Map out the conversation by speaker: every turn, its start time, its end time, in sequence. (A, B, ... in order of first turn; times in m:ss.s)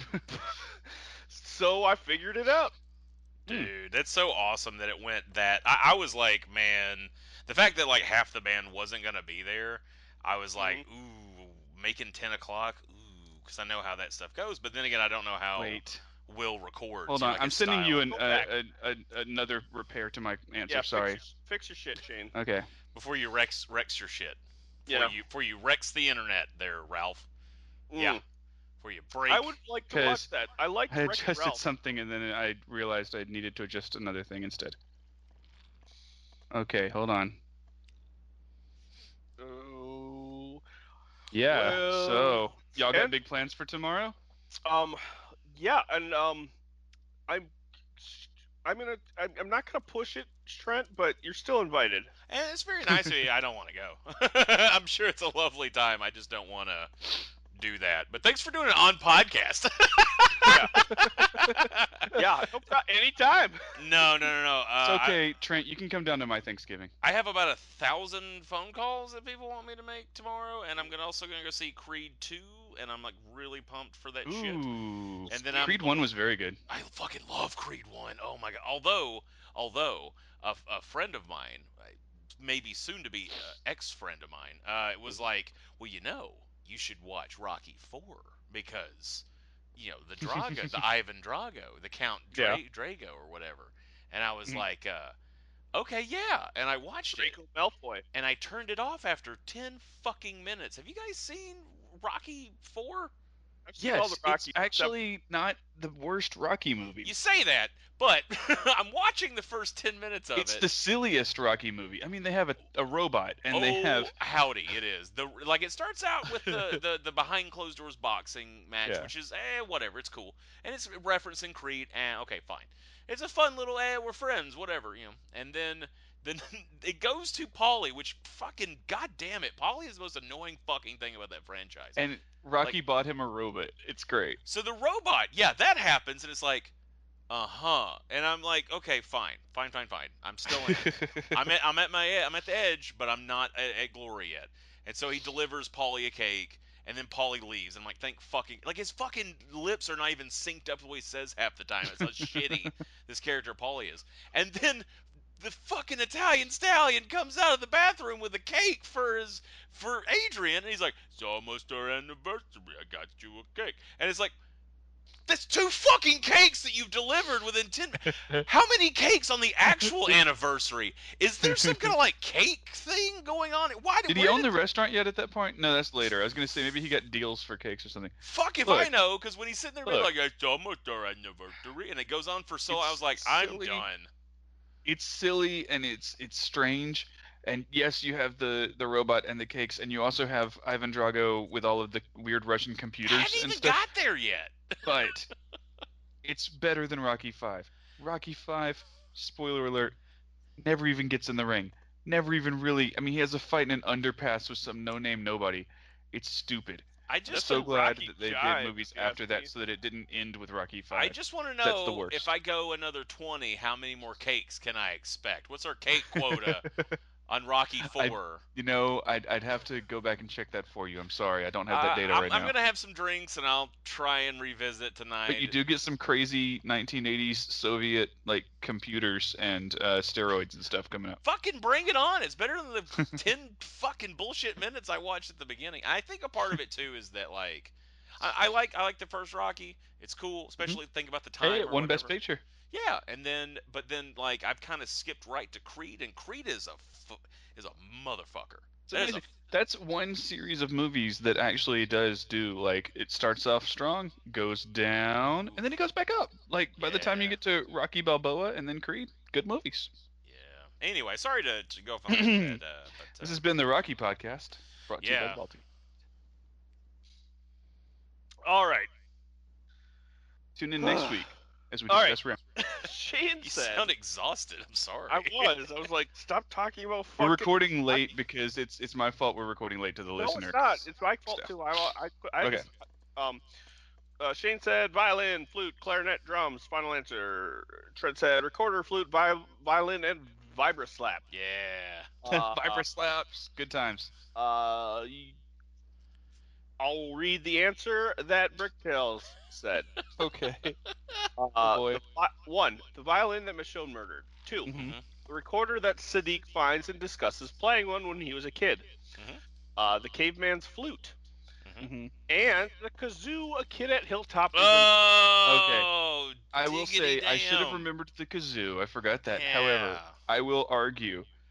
0:00.2-0:02.8 A
0:03.4-0:18.1 B
0:10.6-0:10.8 A
0:15.6-0:16.0 C
0:17.1-0:21.2 C
0:18.1-0:18.5 A
0:20.7-0:22.3 A
0:22.3-0:22.7 C
0:22.9-0:27.3 B
0:24.9-0:25.1 A
0:27.9-0:28.2 A
0:28.8-0:29.6 B
0:29.3-0:31.6 A
0:29.9-0:30.3 C
0:30.9-0:34.8 C
0:36.5-0:37.4 C
0:39.4-0:40.6 A
0:41.3-0:44.2 C
0:41.5-0:43.1 A
0:44.6-0:46.5 A
0:47.3-0:52.1 A
0:52.3-1:02.1 B
1:00.5-1:00.8 A
1:00.8-1:01.6 C
1:02.1-1:03.6 A
1:03.8-1:05.2 B
1:04.8-1:06.9 C
1:07.0-1:14.6 B
1:14.2-1:16.6 C
1:15.3-1:16.1 B
1:16.7-1:29.2 B
1:29.8-1:35.1 B
1:30.3-1:30.7 C
1:32.3-1:32.6 C
1:35.7-1:37.4 B
1:37.1-1:38.0 A
1:38.1-1:43.1 B
1:43.6-1:44.9 A
1:43.8-1:47.1 C
1:47.0-1:50.6 B
1:50.4-1:54.1 C
1:53.5-2:12.0 B
1:56.4-1:56.8 C
1:58.8-1:59.1 C
2:12.0-2:14.4 C
2:14.4-2:16.7 B
2:17.3-2:34.8 B
2:20.5-2:21.4 C
2:35.4-2:44.3 B
2:45.3-2:54.5 B
2:48.2-2:48.4 C
2:49.8-2:50.2 C
2:51.4-2:51.9 C
2:54.1-2:58.1 C
2:58.2-3:04.1 B
3:02.7-3:03.9 C
3:04.8-3:13.8 C
3:13.0-3:15.1 B
3:14.8-3:15.3 C
3:16.2-3:20.0 C
3:20.6-3:32.3 C
3:27.1-3:28.0 B
3:27.4-3:29.5 A
3:30.9-3:36.7 B
3:36.1-3:36.9 C
3:37.3-3:38.4 B
3:37.8-3:42.5 C
3:41.7-3:45.6 B
3:45.3-3:51.2 C
3:51.2-4:02.2 B
4:01.4-4:02.4 C
4:02.7-4:09.3 B
4:08.9-4:19.9 C
4:16.8-4:17.4 B
4:20.2-4:23.4 B
4:22.1-4:22.6 C
4:23.2-4:25.6 C
4:25.0-4:25.4 B
4:28.4-4:28.9 A
4:30.5-4:32.4 C
4:30.8-4:31.2 A
4:31.9-4:33.9 A
4:33.4-4:35.5 B
4:35.1-4:38.0 A
4:37.2-4:41.5 C
4:40.2-4:43.4 A
4:42.4-4:42.7 C
4:44.2-4:51.2 A
4:51.3-4:52.1 B
4:52.2-4:52.8 A
4:52.3-4:54.1 C
4:54.3-4:55.4 A
4:56.8-4:59.8 A
5:00.2-5:00.8 C
5:01.4-5:08.8 A
5:01.6-5:02.0 C
5:04.6-5:05.0 C
5:04.7-5:05.0 B
5:09.2-5:09.4 B
5:09.8-5:11.2 A
5:11.8-5:12.1 C
5:12.3-5:15.2 A
5:14.5-5:17.8 B
5:15.5-5:15.9 C
5:16.5-5:21.2 C
5:19.3-5:20.1 B